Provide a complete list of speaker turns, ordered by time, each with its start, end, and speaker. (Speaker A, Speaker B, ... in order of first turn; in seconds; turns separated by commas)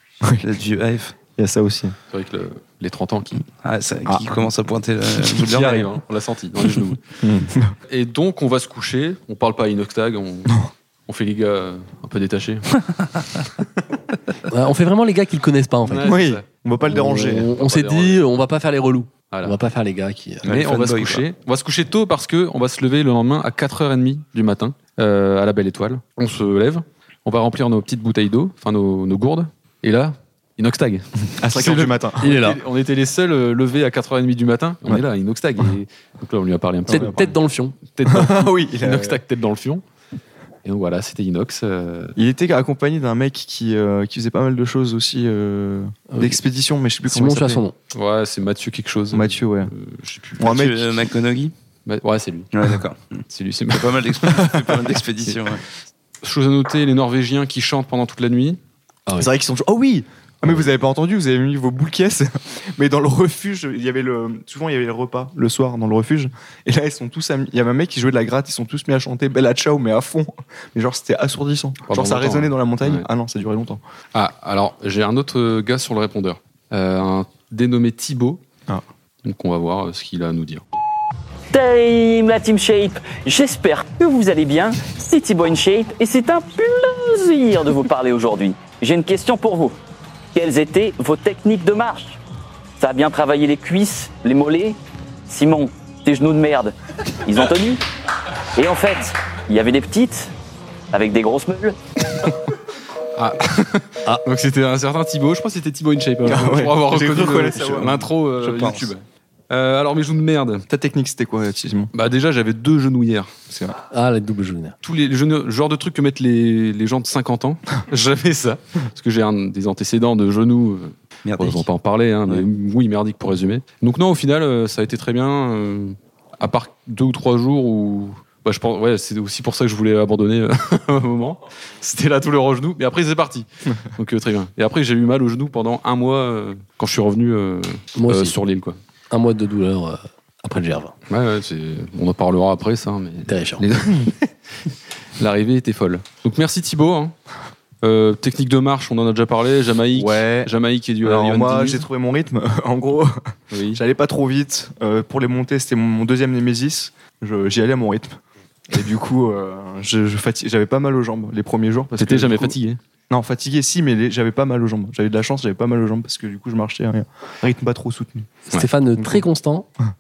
Speaker A: 0.4-1.2, Speaker B: 1.4-2.0, Speaker C: 2.1-3.4, Speaker A: 3.6-5.9, Speaker C: 5.2-7.0, Speaker B: 7.2-7.7, Speaker C: 7.9-12.8, Speaker D: 14.5-16.1, Speaker C: 15.9-16.4, Speaker B: 16.0-17.5, Speaker D: 16.8-20.5, Speaker C: 17.4-18.2, Speaker C: 19.3-19.6, Speaker A: 20.4-21.2, Speaker C: 20.5-39.8, Speaker B: 31.4-32.4, Speaker D: 32.2-32.6, Speaker B: 36.9-37.3, Speaker D: 36.9-37.8, Speaker B: 38.1-39.2, Speaker C: 40.6-42.1, Speaker B: 42.2-47.6, Speaker D: 46.1-46.4, Speaker D: 47.1-47.7, Speaker C: 47.9-50.7, Speaker B: 49.1-49.7, Speaker B: 50.4-50.8, Speaker A: 50.4-51.5, Speaker C: 51.9-52.5, Speaker A: 52.5-55.6, Speaker C: 53.3-54.1, Speaker C: 56.2-58.6, Speaker B: 59.2-73.8, Speaker C: 71.9-73.1, Speaker C: 74.1-78.4, Speaker C: 79.2-80.6, Speaker E: 81.5-89.8, Speaker E: 90.3-92.2, Speaker E: 92.8-94.8, Speaker E: 95.3-96.7, Speaker E: 97.2-97.8, Speaker E: 98.5-100.3, Speaker E: 100.9-101.8, Speaker C: 103.2-110.7, Speaker B: 106.2-108.1, Speaker A: 108.4-108.9, Speaker B: 110.7-111.9, Speaker C: 111.9-113.3, Speaker B: 113.5-113.8, Speaker D: 113.9-114.8, Speaker C: 114.8-138.8, Speaker A: 121.3-121.7, Speaker D: 138.0-138.4, Speaker D: 139.1-140.9, Speaker C: 141.1-144.2, Speaker D: 143.3-143.6, Speaker C: 145.2-147.2, Speaker C: 147.8-151.8, Speaker B: 149.9-150.5, Speaker B: 151.0-153.2, Speaker C: 153.5-153.8, Speaker B: 153.7-158.2, Speaker B: 158.7-162.6, Speaker C: 161.9-162.8, Speaker B: 163.1-168.4, Speaker D: 168.5-169.7, Speaker B: 169.0-169.2